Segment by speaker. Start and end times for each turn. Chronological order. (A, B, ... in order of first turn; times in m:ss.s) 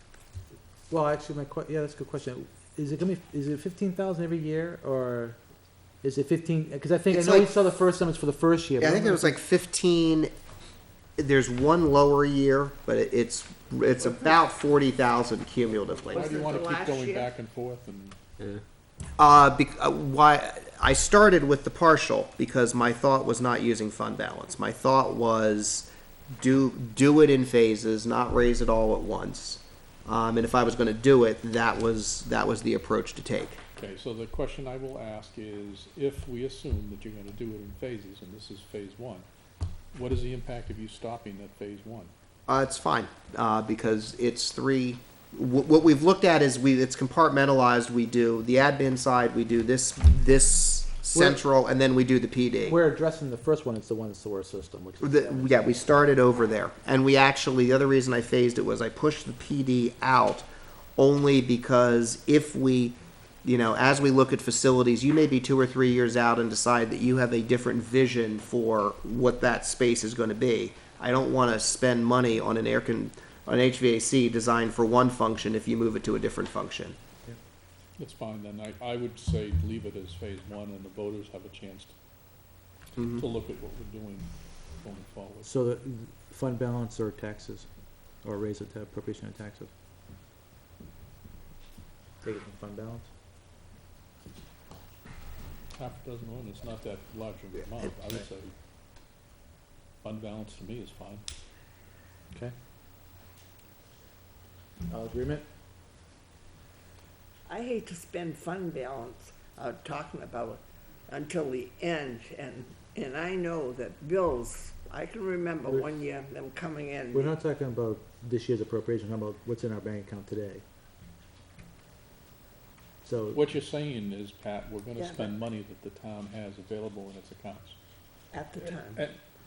0:00.9-0:05.4 A
0:06.0-0:09.4 A
0:07.1-0:07.5 B
0:08.8-0:10.3 B
0:11.2-0:16.4 B
0:14.0-0:14.4 C
0:15.7-0:17.3 C
0:16.1-0:18.2 D
0:19.2-0:33.6 B
0:33.8-0:39.3 D
0:39.9-0:42.1 D
0:42.5-0:52.8 B
0:51.1-0:51.5 A
0:52.6-0:55.5 A
0:55.0-1:00.5 B
1:01.0-1:17.0 B
1:18.0-1:22.0 D
1:23.0-1:25.5 D
1:25.4-1:27.7 A
1:28.2-1:29.7 A
1:32.2-1:33.1 A
1:35.8-1:38.5 D
1:40.0-1:41.2 D
1:44.9-1:45.4 A
1:47.5-1:57.4 C
1:57.1-2:00.6 A
2:03.0-2:03.5 A
2:03.3-2:07.8 D
2:05.0-2:05.4 C
2:08.3-2:09.1 C
2:08.6-2:09.2 D